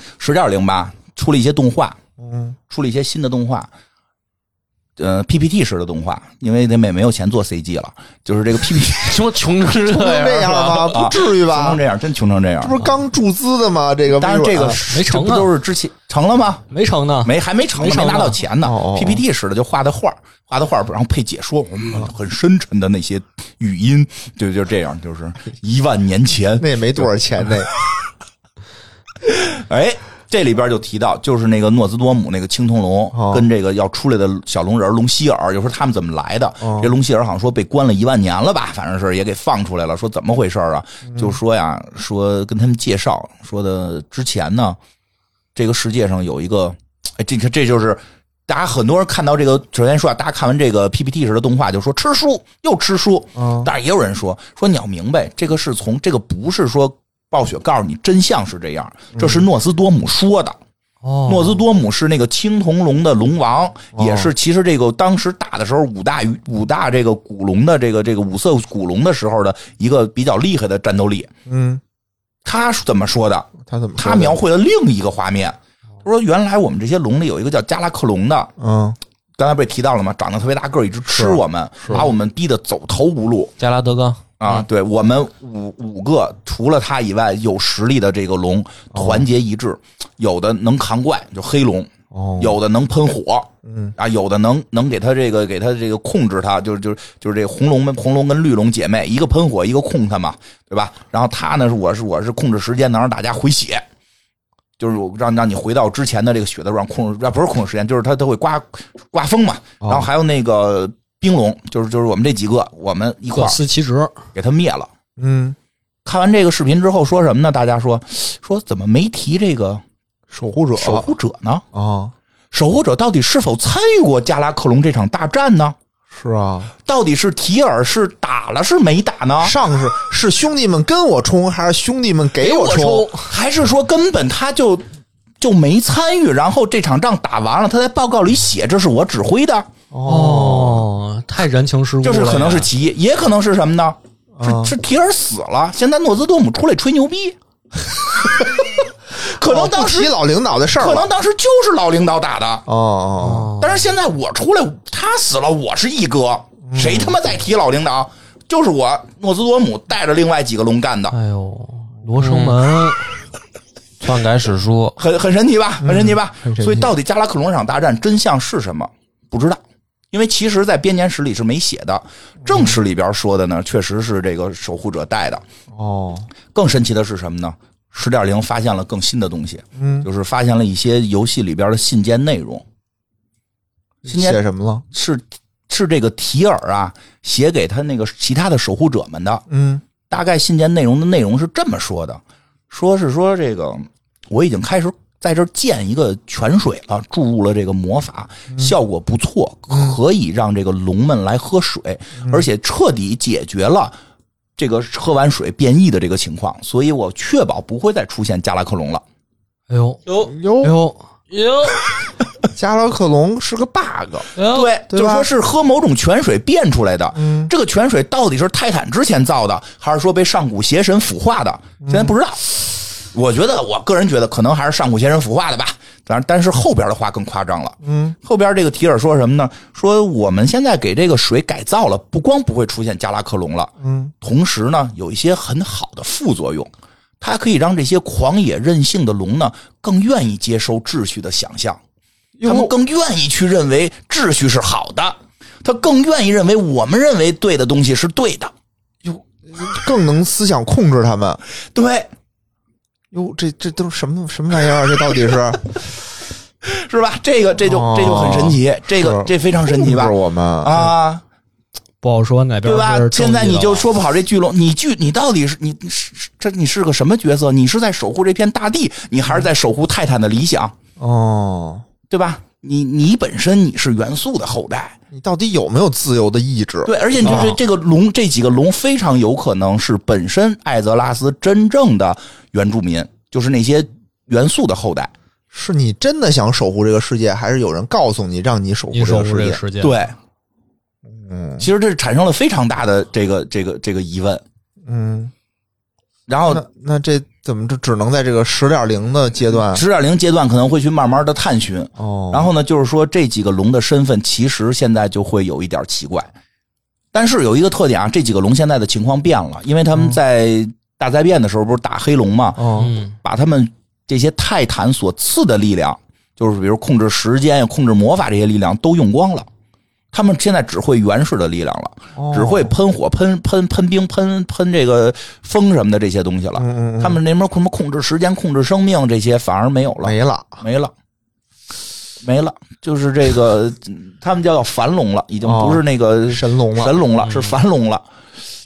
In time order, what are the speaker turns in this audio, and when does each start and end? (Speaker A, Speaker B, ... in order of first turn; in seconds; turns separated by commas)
Speaker A: 0.2-2.0, Speaker B: 2.2-2.6, Speaker A: 2.7-3.7, Speaker A: 5.0-9.3, Speaker C: 9.0-11.1, Speaker B: 9.9-11.8, Speaker A: 10.9-12.8, Speaker B: 12.6-14.8, Speaker A: 14.2-16.6, Speaker D: 14.8-15.5, Speaker D: 16.7-18.4, Speaker A: 17.2-27.6, Speaker B: 18.6-19.2, Speaker B: 26.6-27.7, Speaker A: 29.2-44.8, Speaker B: 33.1-33.5, Speaker B: 36.6-36.9, Speaker B: 41.1-41.4, Speaker A: 45.5-60.6, Speaker B: 53.4-53.7, Speaker B: 59.1-59.5, Speaker D: 61.0-61.6, Speaker A: 61.3-71.3, Speaker B: 63.9-64.3, Speaker B: 71.5-71.8, Speaker A: 72.4-78.5, Speaker B: 73.6-74.4, Speaker B: 78.6-79.0, Speaker A: 79.4-83.5, Speaker B: 81.1-82.0, Speaker C: 83.6-84.6, Speaker A: 84.4-103.8, Speaker B: 88.9-89.3, Speaker B: 92.1-92.6, Speaker B: 93.6-93.9, Speaker A: 104.8-113.6, Speaker B: 109.8-110.1, Speaker D: 113.3-114.2, Speaker A: 114.3-114.9, Speaker B: 115.2-115.5, Speaker A: 116.0-119.8, Speaker B: 120.3-121.1, Speaker A: 120.8-121.6, Speaker B: 121.7-122.1, Speaker A: 122.5-125.8, Speaker B: 126.1-126.7, Speaker A: 126.8-129.5, Speaker B: 129.4-133.1, Speaker A: 132.4-134.8, Speaker A: 135.4-139.7, Speaker B: 139.9-140.8, Speaker D: 140.1-142.7, Speaker A: 142.0-147.3, Speaker B: 144.3-144.8, Speaker A: 148.1-148.5, Speaker A: 149.1-150.1, Speaker B: 149.3-151.1, Speaker A: 150.8-152.7, Speaker B: 152.7-153.5, Speaker D: 153.2-153.7, Speaker A: 153.6-161.1, Speaker B: 156.6-157.2, Speaker D: 161.1-163.1, Speaker C: 162.2-162.7, Speaker C: 164.0-165.0, Speaker A: 165.0-169.6, Speaker B: 165.8-166.9, Speaker A: 170.1-175.4, Speaker B: 172.4-172.8, Speaker B: 175.7-176.3, Speaker A: 176.5-182.6, Speaker B: 179.8-180.1, Speaker B: 184.0-184.8, Speaker A: 184.1-184.4, Speaker A: 184.9-189.4, Speaker B: 189.5-189.8, Speaker A: 190.1-203.9, Speaker B: 198.5-198.8, Speaker B: 199.7-200.0, Speaker B: 202.2-202.5, Speaker A: 204.6-209.0, Speaker D: 209.7-210.0, Speaker B: 210.2-210.8, Speaker D: 210.6-211.0, Speaker C: 211.3-211.9, Speaker B: 212.5-214.3, Speaker C: 214.3-214.7, Speaker A: 214.4-236.7, Speaker B: 214.9-215.3, Speaker B: 217.1-217.5, Speaker B: 221.8-222.1, Speaker B: 227.8-228.2, Speaker B: 233.8-234.1, Speaker A: 237.2-241.8, Speaker B: 242.4-242.7, Speaker A: 242.4-248.5, Speaker B: 249.0-251.4, Speaker A: 251.7-252.1, Speaker B: 253.1-255.8, Speaker A: 256.6-261.2, Speaker B: 257.6-260.9, Speaker D: 262.0-263.9, Speaker A: 262.6-270.7, Speaker B: 271.0-271.9, Speaker A: 272.1-274.9, Speaker B: 275.1-277.6, Speaker A: 276.8-285.1, Speaker B: 285.5-289.6, Speaker D: 288.9-289.9, Speaker A: 289.8-290.1, Speaker B: 291.1-291.7, Speaker A: 291.6-294.4, Speaker B: 294.8-295.3, Speaker A: 296.3-296.6, Speaker B: 296.5-299.8, Speaker A: 299.6-306.3, Speaker B: 302.0-302.5, Speaker A: 307.1-319.5, Speaker B: 312.6-312.9, Speaker D: 312.8-313.1, Speaker A: 320.1-330.9, Speaker B: 322.1-322.7, Speaker B: 326.6-327.2, Speaker B: 330.0-330.6, Speaker A: 332.2-338.0, Speaker B: 335.4-337.0, Speaker D: 337.2-337.5